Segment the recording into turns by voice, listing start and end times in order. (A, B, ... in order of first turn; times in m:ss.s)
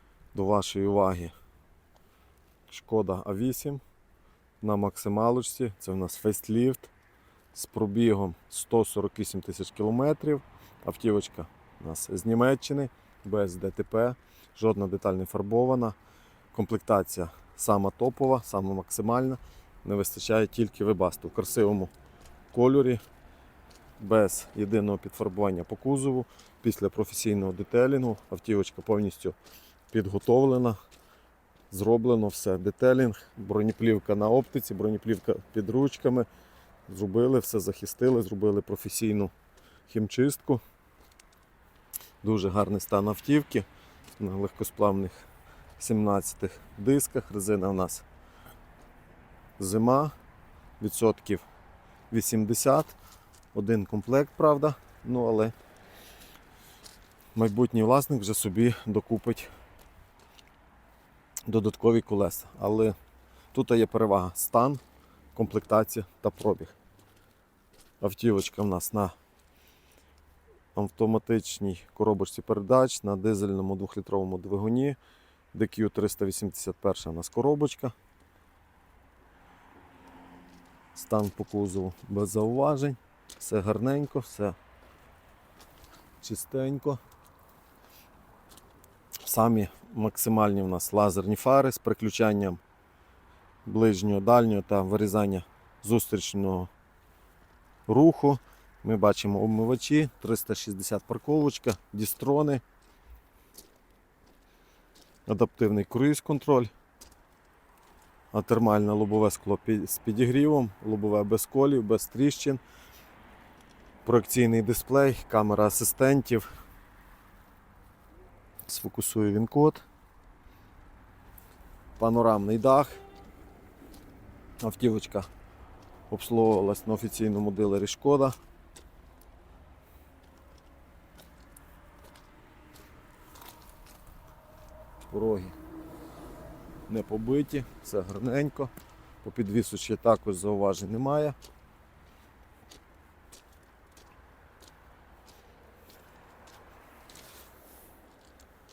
0:00.3-0:01.3 A
0:02.7-0:03.8 A
0:04.6-0:06.9 A
0:07.5-0:16.0 A
0:16.5-0:21.9 A
0:22.5-0:23.0 A
0:24.0-0:29.4 A
0:29.9-0:30.8 A
0:31.7-0:36.3 A
0:36.9-0:39.3 A
0:39.9-0:40.6 A
0:42.2-0:43.7 A
0:44.2-0:48.0 A
0:49.6-0:50.1 A
0:50.8-0:51.4 A
0:52.1-0:52.9 A
0:53.5-0:55.5 A
0:57.4-0:59.5 A
1:01.5-1:03.0 A
1:03.5-1:04.8 A
1:05.4-1:06.8 A
1:08.0-1:09.2 A
1:10.8-1:15.0 A
1:15.5-1:18.0 A
1:20.9-1:24.6 A
1:26.2-1:27.0 A
1:29.2-1:32.6 A
1:33.6-1:36.7 A
1:37.9-1:42.6 A
1:45.3-1:46.7 A
1:48.3-1:52.6 A
1:54.0-1:56.5 A
1:58.7-1:59.8 A
2:02.0-2:03.0 A
2:04.6-2:05.3 A
2:06.1-2:08.4 A
2:15.0-2:15.6 A
2:16.9-2:21.4 A